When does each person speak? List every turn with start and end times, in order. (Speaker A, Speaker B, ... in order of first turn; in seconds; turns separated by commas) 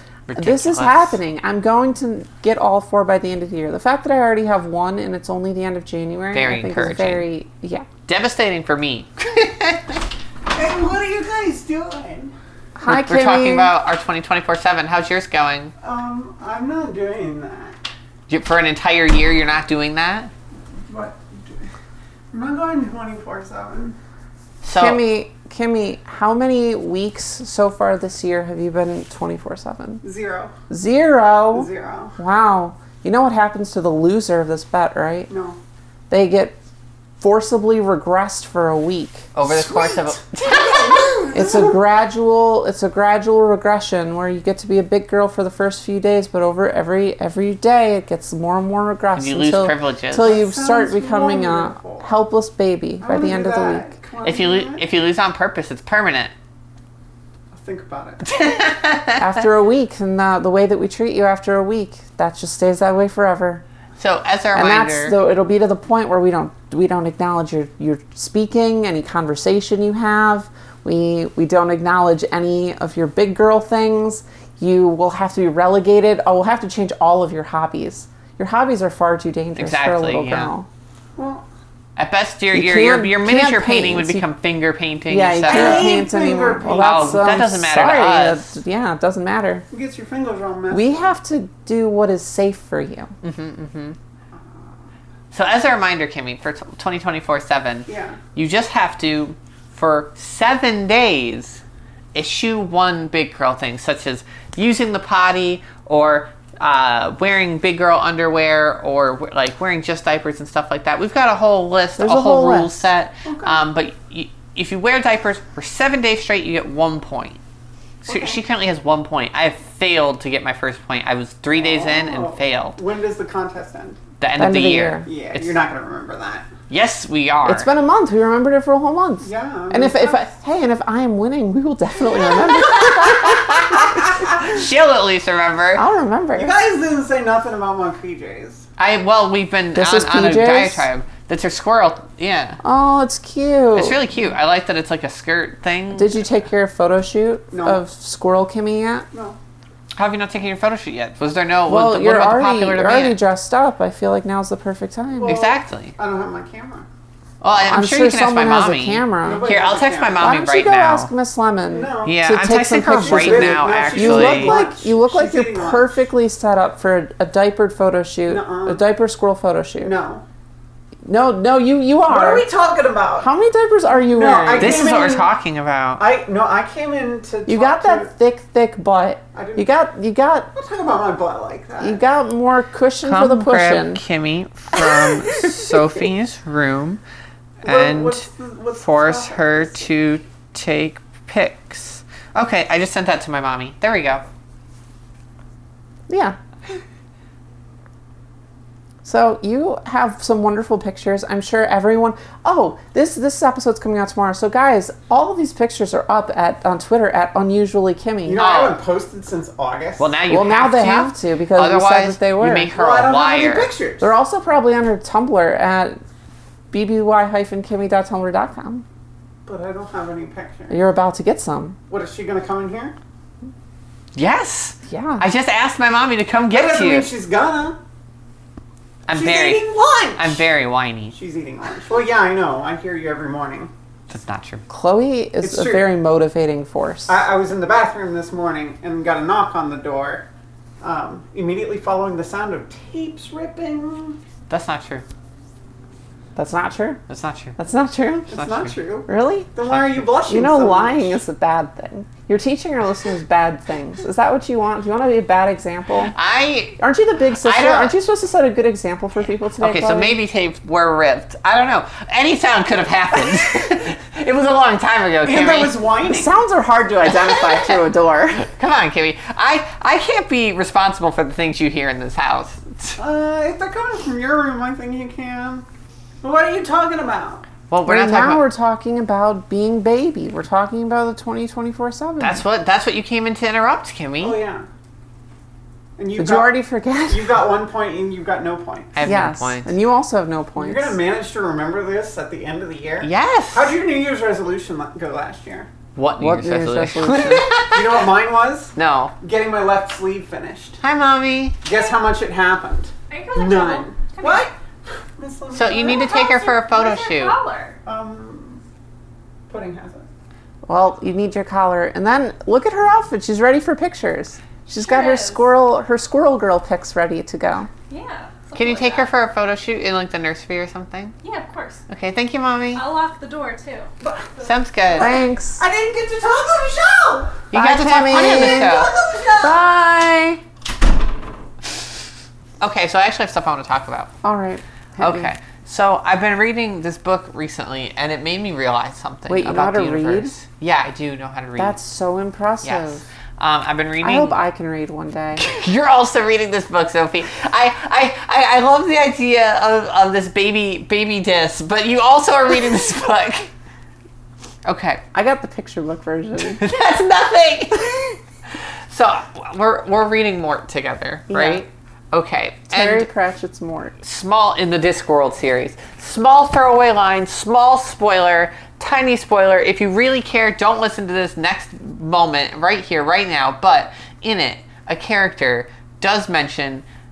Speaker A: 0.3-1.2, Speaker B: 0.4-7.9, Speaker A: 6.3-7.3, Speaker A: 8.1-10.1, Speaker C: 10.5-12.3, Speaker B: 12.8-13.7, Speaker A: 12.9-15.7, Speaker C: 15.8-17.8, Speaker A: 18.3-20.3, Speaker C: 20.9-21.7, Speaker C: 22.3-23.9, Speaker A: 24.6-25.0, Speaker B: 24.7-30.0, Speaker C: 30.0-30.5, Speaker B: 30.7-35.3, Speaker C: 31.5-32.1, Speaker C: 35.3-35.6, Speaker B: 36.1-36.6, Speaker B: 37.2-39.3, Speaker A: 39.4-41.4, Speaker C: 39.4-41.8, Speaker B: 41.3-53.9, Speaker A: 49.1-50.3, Speaker C: 50.1-52.1, Speaker C: 53.0-54.8, Speaker A: 54.2-56.3, Speaker C: 57.5-58.4, Speaker A: 58.2-59.3, Speaker B: 59.1-63.6, Speaker A: 64.0-65.1, Speaker B: 64.5-80.7, Speaker A: 79.5-80.5, Speaker C: 81.2-81.4, Speaker A: 82.0-86.1, Speaker B: 82.5-84.3, Speaker B: 85.1-89.7, Speaker C: 85.5-87.3, Speaker A: 86.8-88.6, Speaker C: 89.7-91.1, Speaker B: 90.7-93.1, Speaker A: 93.2-94.0, Speaker C: 94.3-94.7, Speaker A: 95.3-101.6, Speaker C: 97.9-98.2, Speaker A: 102.1-117.4, Speaker B: 112.0-112.8, Speaker C: 113.2-113.6, Speaker C: 118.1-118.4, Speaker A: 118.1-122.8, Speaker C: 121.5-124.0, Speaker A: 124.2-125.6, Speaker B: 124.3-125.1, Speaker C: 125.0-126.5, Speaker A: 126.7-127.7, Speaker B: 127.4-134.3, Speaker C: 129.2-130.2, Speaker A: 132.7-135.8, Speaker B: 135.8-136.5, Speaker C: 136.4-138.7, Speaker A: 138.8-142.6, Speaker B: 139.8-140.9, Speaker B: 142.6-144.0, Speaker A: 143.8-146.2, Speaker B: 145.9-149.1, Speaker C: 147.5-147.8, Speaker C: 149.1-149.4, Speaker A: 149.9-153.2, Speaker B: 151.7-155.4, Speaker C: 155.1-156.9, Speaker A: 155.2-155.9, Speaker A: 157.4-161.1, Speaker B: 157.6-159.5, Speaker C: 159.2-160.3, Speaker B: 160.2-169.9, Speaker C: 161.7-162.2, Speaker A: 162.0-164.6, Speaker C: 162.9-165.9, Speaker C: 168.3-168.8, Speaker C: 169.8-170.2, Speaker B: 171.1-172.5, Speaker C: 172.1-173.3, Speaker B: 173.2-174.9, Speaker C: 174.0-175.3, Speaker A: 174.6-176.0, Speaker C: 176.0-178.1, Speaker B: 177.5-180.5, Speaker C: 179.3-179.7, Speaker C: 180.5-182.0, Speaker B: 181.8-184.0, Speaker A: 183.0-187.0, Speaker B: 184.8-185.6, Speaker C: 187.6-189.8, Speaker A: 187.6-194.2, Speaker B: 196.1-196.4, Speaker B: 199.0-208.4, Speaker C: 208.2-210.1, Speaker A: 208.4-208.8, Speaker A: 210.0-213.7, Speaker B: 210.3-212.7, Speaker C: 212.7-214.1, Speaker B: 214.0-216.0, Speaker B: 216.7-218.8, Speaker C: 219.4-220.8, Speaker B: 220.7-221.8, Speaker C: 221.9-222.9, Speaker A: 224.1-227.1, Speaker B: 224.9-225.2, Speaker C: 226.5-227.8, Speaker A: 229.1-231.2, Speaker C: 229.1-230.4, Speaker C: 231.1-233.7, Speaker A: 234.1-234.6, Speaker B: 234.7-237.2, Speaker C: 235.4-235.8, Speaker C: 237.1-240.3, Speaker C: 240.8-244.2, Speaker A: 244.5-245.0, Speaker B: 246.3-247.0, Speaker A: 247.1-247.6, Speaker B: 247.6-248.3, Speaker C: 248.3-251.2, Speaker A: 248.3-248.8, Speaker B: 249.1-249.5, Speaker A: 249.6-250.1, Speaker B: 250.3-256.1, Speaker A: 256.1-256.8, Speaker B: 256.8-260.2, Speaker A: 257.4-257.9, Speaker A: 259.6-265.8, Speaker C: 265.2-266.3, Speaker B: 266.0-268.5, Speaker A: 267.1-267.7, Speaker A: 268.5-273.0, Speaker C: 273.0-275.6, Speaker C: 276.2-277.5, Speaker A: 277.7-278.4, Speaker B: 277.9-282.4, Speaker A: 282.2-284.4, Speaker C: 284.2-284.7, Speaker C: 286.0-286.5, Speaker B: 286.2-287.4, Speaker C: 287.1-289.1, Speaker A: 288.9-289.7, Speaker B: 289.0-291.0, Speaker C: 290.6-295.7, Speaker A: 293.0-293.8, Speaker A: 296.0-298.1, Speaker B: 296.2-297.6, Speaker C: 297.5-300.8, Speaker A: 298.8-299.1, Speaker A: 300.8-301.6, Speaker C: 301.6-304.6, Speaker D: 303.1-304.5, Speaker C: 305.2-306.3, Speaker A: 305.5-307.4, Speaker D: 305.8-307.8, Speaker C: 307.8-308.6, Speaker C: 309.5-310.1, Speaker B: 310.7-317.7, Speaker D: 314.8-315.5, Speaker D: 317.9-319.1, Speaker A: 318.5-321.1, Speaker D: 321.2-321.8, Speaker A: 321.9-322.8, Speaker D: 322.7-323.9, Speaker C: 324.0-327.4, Speaker A: 324.4-325.1, Speaker B: 325.0-325.6, Speaker A: 327.5-328.9, Speaker B: 327.5-328.8, Speaker C: 328.2-329.6, Speaker B: 329.4-330.4, Speaker A: 332.6-334.1, Speaker B: 334.2-335.3, Speaker A: 335.0-341.8, Speaker B: 339.3-340.3, Speaker B: 341.6-343.0, Speaker A: 342.6-344.4, Speaker B: 344.0-345.4, Speaker A: 345.4-353.5, Speaker A: 354.6-355.0, Speaker B: 355.1-356.6, Speaker A: 356.5-358.2, Speaker A: 358.9-363.1, Speaker B: 361.3-361.7, Speaker B: 362.7-364.0, Speaker A: 364.0-376.8